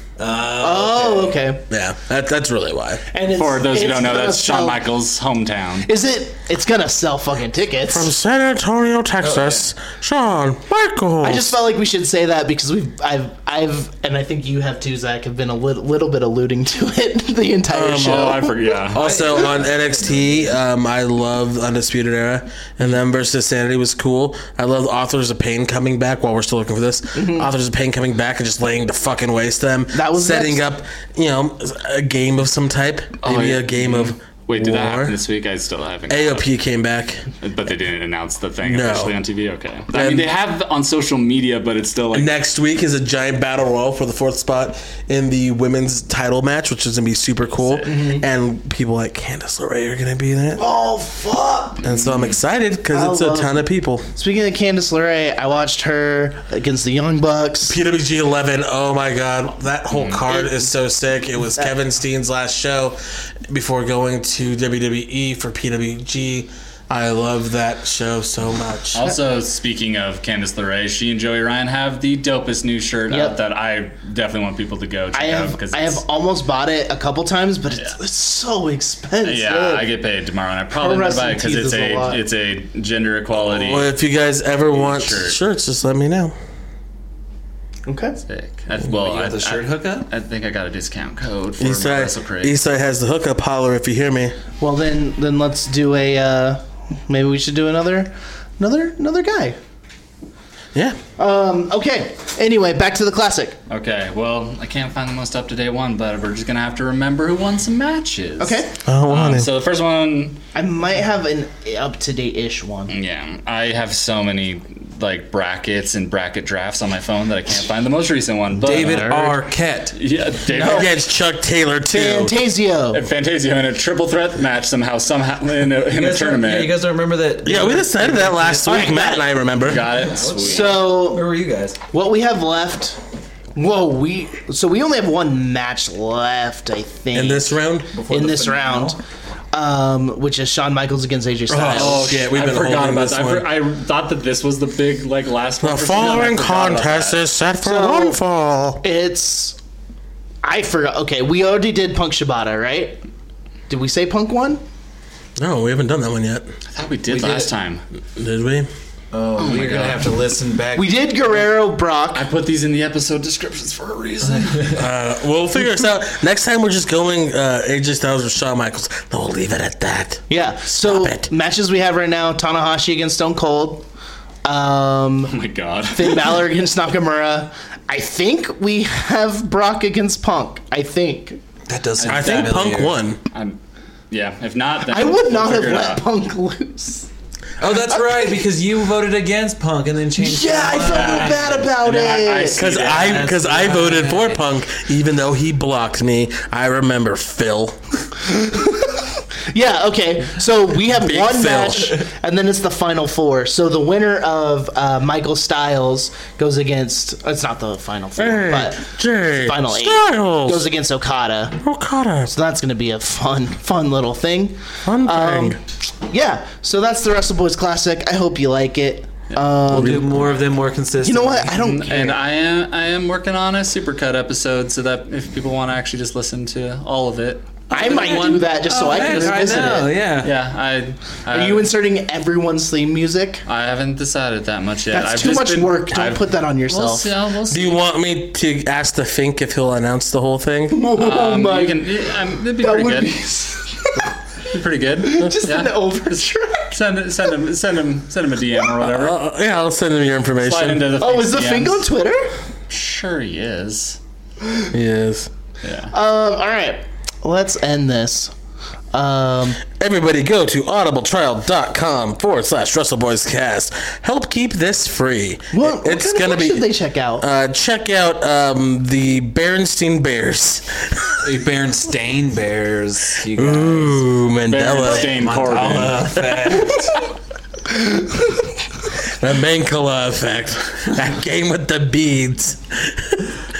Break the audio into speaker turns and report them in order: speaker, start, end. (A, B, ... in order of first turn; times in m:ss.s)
0:00.2-0:01.3 A
0:00.6-0:01.6 B
0:01.7-0:03.0 C
0:03.1-0:04.8 B
0:03.3-0:05.9 D
0:05.8-0:08.1 B
0:07.9-0:11.6 C
0:09.2-0:09.6 A
0:11.2-0:18.7 B
0:17.7-0:35.2 C
0:18.0-0:19.2 D
0:18.9-0:20.6 A
0:27.1-0:27.5 B
0:29.9-0:30.6 B
0:33.2-0:36.5 D
0:36.1-0:37.2 C
0:37.4-0:42.3 D
0:38.6-0:39.2 C
0:39.9-0:40.3 C
0:42.1-0:50.6 C
0:47.5-0:47.9 D
0:47.8-0:48.2 B
0:50.6-0:51.8 B
0:51.8-0:52.4 D
0:51.8-0:54.1 C
0:52.9-0:53.6 B
0:54.2-0:57.8 B
0:57.6-1:09.0 C
0:59.9-1:00.3 D
1:08.9-1:16.0 D
1:13.1-1:13.3 B
1:15.1-1:19.9 B
1:19.2-1:23.9 D
1:20.7-1:22.2 B
1:23.4-1:26.3 C
1:24.7-1:25.4 D
1:27.8-1:28.2 B
1:28.3-1:32.6 D
1:28.9-1:30.1 A
1:31.6-1:34.3 C
1:34.6-1:39.6 B
1:40.7-1:41.0 C
1:41.2-1:43.6 B
1:43.7-1:50.4 D
1:48.4-1:48.7 B
1:48.8-1:49.5 C
1:50.5-1:52.9 B
1:52.9-1:59.3 D
1:58.6-2:00.0 A
1:59.0-1:59.4 C
1:59.9-2:00.9 D
2:00.5-2:00.9 B
2:00.6-2:02.4 C
2:01.9-2:03.0 B
2:02.9-2:06.8 D
2:05.9-2:09.1 A
2:07.4-2:10.0 C
2:08.6-2:09.3 B
2:09.6-2:10.8 D
2:09.8-2:11.8 A
2:10.4-2:11.2 B
2:11.9-2:13.0 B
2:13.6-2:17.5 B
2:17.1-2:17.9 C
2:17.9-2:19.0 A
2:18.1-2:19.0 B
2:19.5-2:22.0 B
2:21.5-2:23.4 C
2:21.6-2:27.2 D
2:25.6-2:28.8 C
2:27.6-2:28.2 B
2:28.8-2:29.6 B
2:30.4-2:33.0 B
2:33.7-2:34.6 B
2:35.4-2:36.5 C
2:36.7-2:37.8 D
2:37.1-2:37.5 A
2:38.2-2:38.7 C
2:39.1-2:41.1 A
2:39.4-2:40.2 D
2:40.8-2:42.3 B
2:42.1-2:44.8 D
2:44.4-2:44.8 A
2:44.7-2:51.3 C
2:50.3-2:53.8 B
2:54.4-2:55.4 B
2:55.3-2:56.4 D
2:55.9-3:01.4 B
3:01.7-3:03.0 A
3:02.0-3:02.6 D
3:02.0-3:03.2 C
3:03.3-3:06.0 D
3:04.9-3:07.1 B
3:07.6-3:11.7 A
3:07.9-3:08.3 B
3:10.2-3:12.6 B
3:10.7-3:13.3 D
3:12.5-3:17.8 C
3:12.6-3:14.4 A
3:18.2-3:31.6 B
3:20.8-3:22.0 C
3:28.2-3:30.7 C
3:31.6-3:32.3 C
3:32.3-3:40.1 B
3:34.8-3:35.6 C
3:39.7-3:41.5 A
3:39.7-3:40.3 C
3:41.0-3:42.2 B
3:41.5-3:51.7 D
3:47.7-3:49.9 B
3:48.0-3:50.3 A
3:51.3-3:53.4 B
3:53.4-3:57.8 D
3:54.9-3:57.1 B
3:57.5-4:00.8 C
4:00.7-4:01.9 B
4:01.0-4:03.2 D
4:02.6-4:04.1 B
4:04.5-4:06.2 D
4:05.0-4:06.8 B
4:06.7-4:09.2 D
4:08.8-4:10.9 C
4:10.4-4:11.8 D
4:11.0-4:12.3 B
4:12.7-4:14.0 D
4:14.7-4:15.3 C
4:15.6-4:15.9 D
4:15.9-4:18.3 B
4:18.9-4:19.6 B
4:19.6-4:31.2 C
4:25.5-4:27.2 B
4:31.2-4:34.0 A
4:33.3-4:35.2 C
4:34.5-4:36.1 D
4:35.0-4:37.0 A
4:36.2-4:36.6 C
4:39.0-4:43.4 C